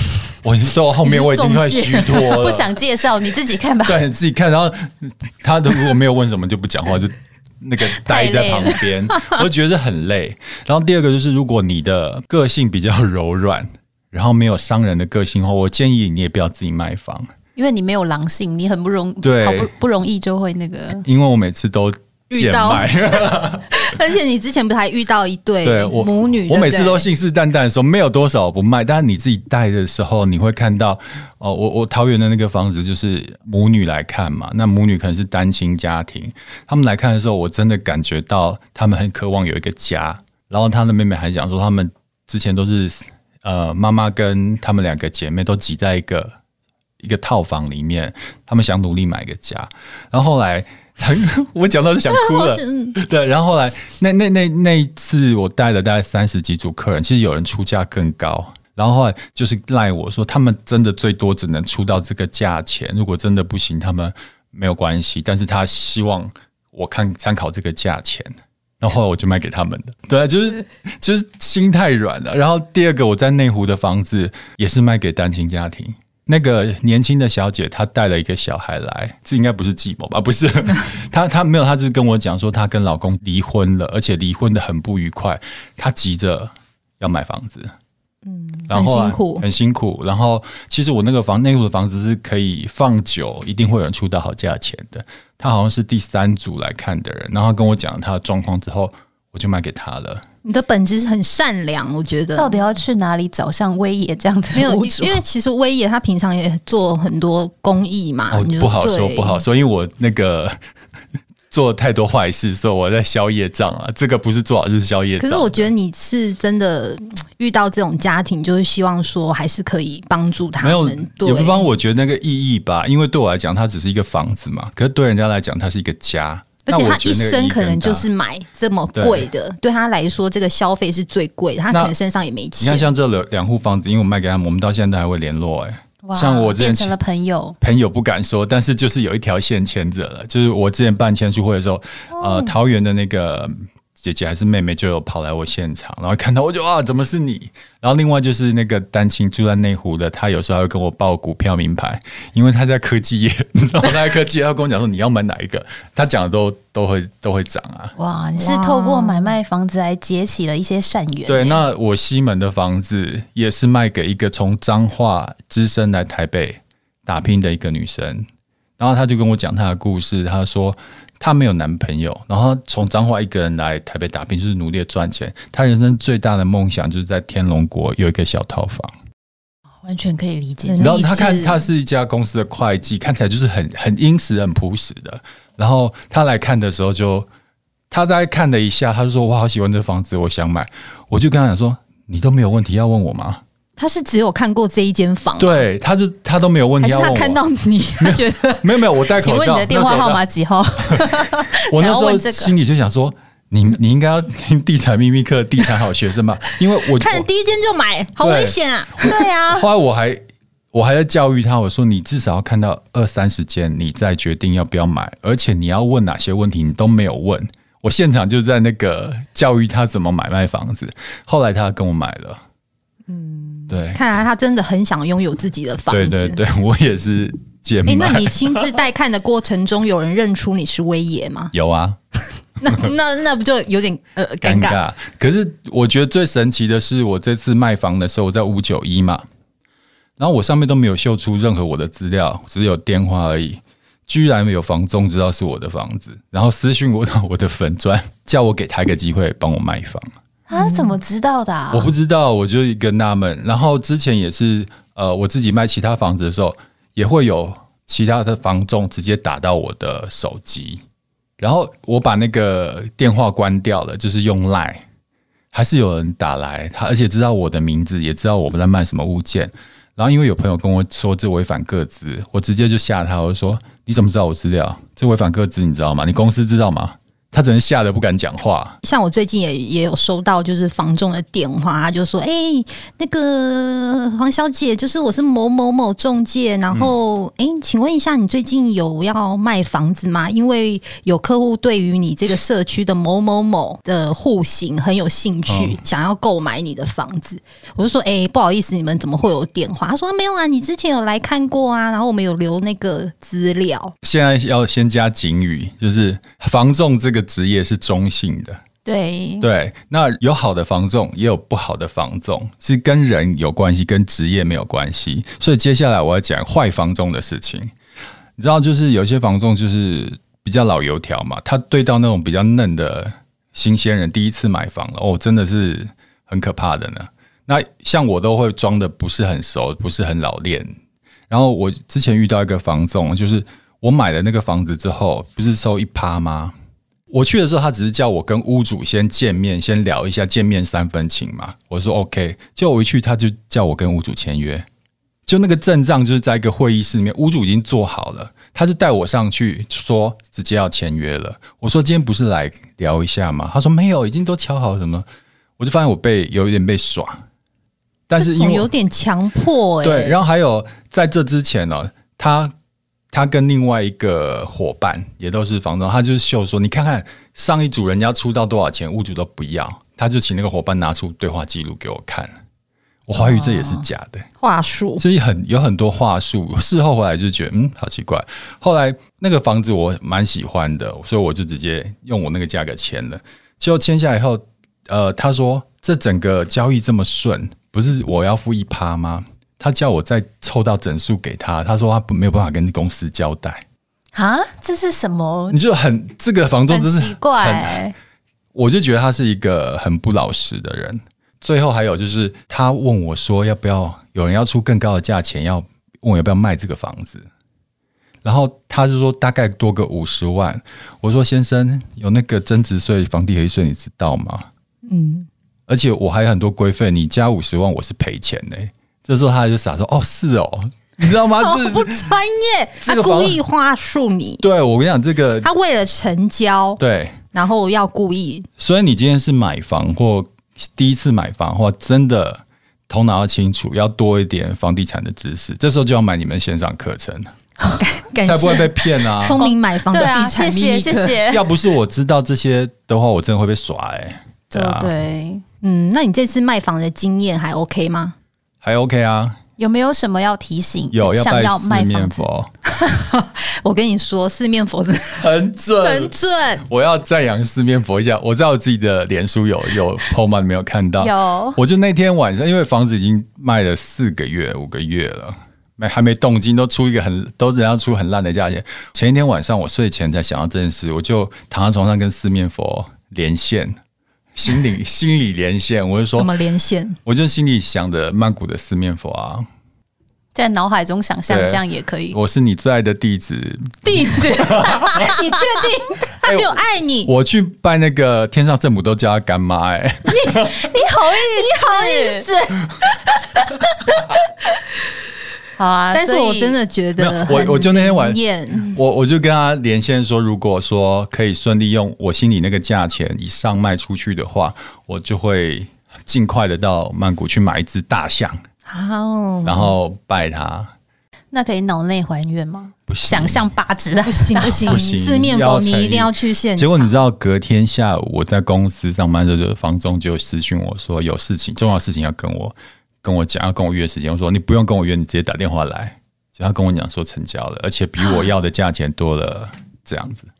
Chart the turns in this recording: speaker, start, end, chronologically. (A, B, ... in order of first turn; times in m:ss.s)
0:00.4-0:02.7 A
0:01.0-0:02.4 B
0:02.1-0:04.0 C
0:03.8-0:17.3 A
0:08.0-0:08.8 C
0:17.6-0:21.0 C
0:19.2-0:19.7 A
0:21.0-0:24.0 A
0:22.3-0:22.9 B
0:23.7-0:27.1 B
0:25.6-0:46.3 A
0:47.0-1:27.7 A
0:52.1-0:53.0 B
1:28.2-1:29.4 B
1:28.7-1:40.2 A
1:40.4-1:42.6 B
1:42.4-1:45.2 C
1:44.5-1:49.4 B
1:48.3-1:50.6 A
1:51.5-1:55.7 A
1:55.2-2:01.7 B
2:00.6-2:08.1 A
2:06.6-2:12.9 B
2:09.0-2:09.3 A
2:12.6-2:16.9 A
2:16.0-2:17.6 C
2:17.6-2:37.9 A
2:38.0-2:41.6 C
2:38.4-2:39.3 B
2:41.2-2:48.2 A
2:48.8-2:58.9 A
2:59.8-3:01.4 C
3:00.6-3:01.5 B
3:00.8-3:07.3 A
3:07.9-3:13.4 A
3:13.8-3:15.6 B
3:15.4-3:17.4 A
3:16.8-3:18.7 B
3:18.0-3:20.2 A
3:19.1-3:22.5 C
3:20.8-3:27.2 A
3:26.9-3:29.2 B
3:28.2-3:42.4 A
3:29.0-3:29.7 C
3:43.1-3:46.4 B
3:43.7-3:44.0 A
3:45.9-3:48.7 A
3:47.8-3:51.5 B
3:51.5-3:52.0 A
3:52.6-3:54.8 B
3:54.4-3:59.2 A
4:00.2-4:10.1 A
4:10.5-4:11.9 C
4:10.5-4:10.9 B
4:11.7-4:20.8 A
4:21.4-4:24.8 A
4:25.5-4:38.8 A
4:38.8-5:03.9 B
4:55.5-4:55.8 A
5:04.0-5:08.6 A
5:08.8-5:09.5 C
5:09.4-5:17.7 A
5:18.4-5:30.7 A
5:31.3-5:36.5 A
5:37.1-5:44.6 A
5:45.2-5:55.0 A
5:55.6-5:57.2 A
5:58.1-5:58.7 A
5:58.2-6:00.2 B
5:59.8-6:02.5 A
6:03.1-6:12.3 A
6:13.1-6:14.3 A
6:13.2-6:13.8 C
6:14.4-6:15.0 B
6:15.0-6:33.6 A
6:34.1-6:35.6 C
6:35.5-6:37.8 A
6:36.7-6:37.9 C
6:38.5-6:47.3 A
6:48.2-6:54.5 A
6:54.9-6:55.3 B
6:55.7-7:02.1 A
7:01.3-7:04.4 B
7:02.8-7:03.4 A
7:04.4-7:05.5 A
7:05.4-7:06.8 B
7:06.8-7:07.2 A
7:07.3-7:08.5 B
7:08.6-7:17.3 A
7:17.7-7:21.2 B
7:18.2-7:19.4 A
7:19.3-7:21.4 C
7:21.3-7:24.9 A
7:24.5-7:25.4 C
7:25.6-7:28.1 B
7:28.6-7:29.4 A
7:29.6-7:32.3 C
7:30.9-7:32.5 A
7:32.8-7:35.3 B
7:35.2-7:53.8 A
7:35.8-7:36.6 B
7:41.0-7:41.6 C
7:54.3-7:56.3 A
7:56.2-7:57.0 B
7:57.0-7:59.4 A
8:00.3-8:02.2 C
8:01.3-8:05.1 A
8:03.8-8:07.1 B
8:06.2-8:10.7 A
8:10.0-8:14.2 B
8:10.9-8:12.3 C
8:15.6-8:16.6 C
8:15.9-8:18.8 B
8:17.0-8:28.4 A
8:28.7-8:29.7 B
8:29.4-8:30.7 A
8:31.3-8:34.8 C
8:32.9-8:33.5 A
8:34.0-8:36.9 B
8:34.6-8:50.3 A